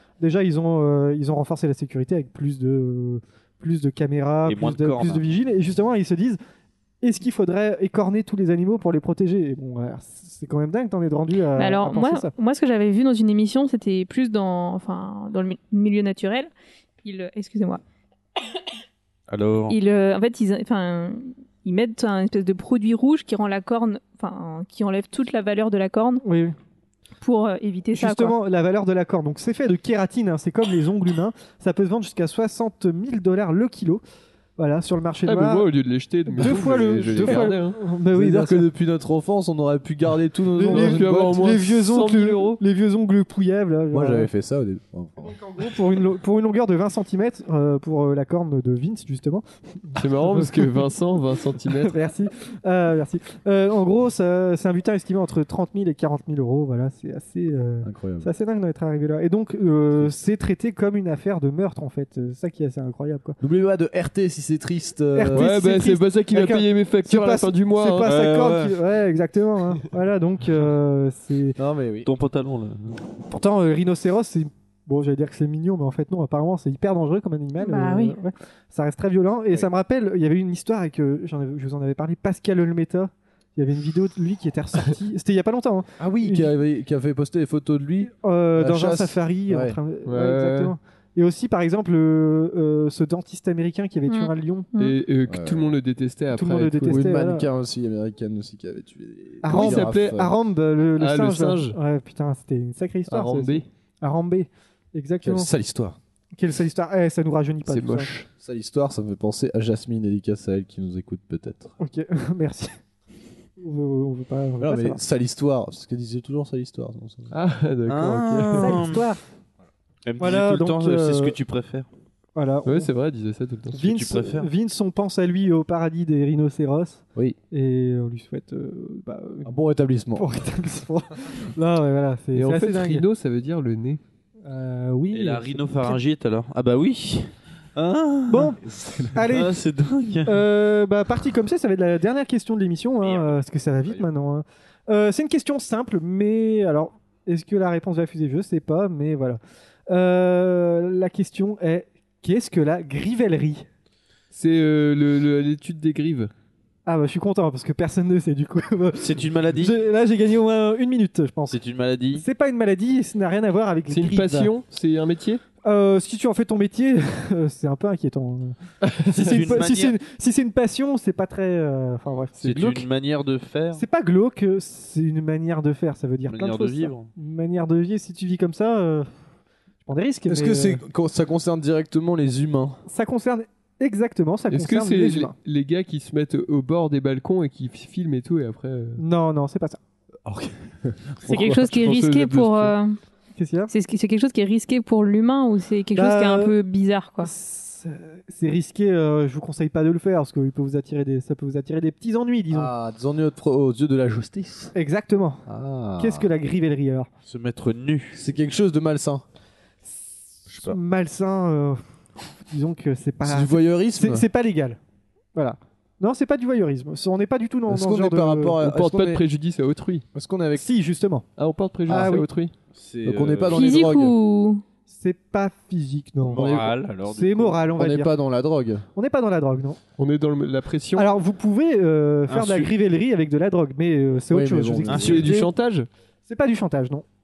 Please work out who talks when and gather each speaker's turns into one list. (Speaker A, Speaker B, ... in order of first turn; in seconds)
Speaker A: 0.2-6.4, 7.0-12.3, 26.2-26.5, 27.9-34.0, 34.6-35.7, 36.3-38.7, 40.6-44.3, 45.2-50.9, 51.6-63.4, 65.1-71.6, 73.3-86.5, 88.0-94.7, 96.3-97.5, 99.4-105.5, 106.3-108.1, 111.8-112.7, 113.6-115.0, 118.5-119.2, 120.2-121.3, 122.3-122.9, 123.7-129.5, 130.1-133.0, 134.4-136.0, 138.3-138.6, 139.1-139.6, 140.2-153.7, 156.8-161.6, 162.1-164.5, 165.6-172.8, 173.7-179.1, 179.8-180.8, 182.8-185.3, 189.0-189.8, 193.3-193.7, 195.9-196.5, 197.2-202.7, 204.7-205.4, 206.0-207.1, 210.6-214.8, 215.3-218.6, 220.6-221.2, 221.9-222.3, 224.9-228.1, 228.9-229.8, 230.9-235.4, 236.3-237.0
Speaker B: 4.4-5.2, 19.3-19.8, 68.0-68.8, 72.0-73.0, 117.9-119.0, 120.0-121.8, 123.7-124.5, 135.1-138.6, 139.2-140.4, 143.0-143.3, 159.0-159.8, 161.5-162.2, 169.2-170.0, 172.4-173.8, 176.2-177.1, 207.2-208.2, 210.5-210.8, 222.7-223.7, 226.2-227.7, 232.3-232.7, 234.9-235.5
Speaker C: 11.5-16.5, 17.0-17.8, 19.7-26.2, 27.2-28.4, 77.6-78.2, 94.1-95.0, 191.3-193.0, 193.7-197.3, 223.5-224.6
Speaker D: 35.2-37.8, 40.6-42.6, 50.0-51.9, 65.3-68.1, 90.0-90.7, 94.8-97.0, 99.5-100.3, 101.0-101.8, 103.1-103.6, 107.7-108.3, 117.3-118.8, 122.6-123.8, 132.3-134.0, 154.3-156.3, 163.9-165.4, 168.8-169.4, 172.4-172.7, 184.5-189.0, 191.4-192.7, 218.6-220.1, 221.4-222.5, 230.0-231.1, 235.0-235.9
Speaker E: 36.4-37.6, 38.1-41.5, 43.9-45.4, 57.8-58.3, 63.4-65.5, 71.6-72.1, 86.0-89.8, 95.3-95.7, 96.9-100.3, 105.2-106.0, 108.4-111.7, 114.6-117.3, 129.4-130.2, 138.6-139.3, 180.3-182.8, 190.3-191.6, 202.5-204.7, 205.5-206.3, 208.1-209.2, 213.2-214.2, 217.7-219.2, 220.1-220.6, 221.9-222.1, 223.0-224.1, 226.4-226.8, 227.8-228.8, 234.3-235.4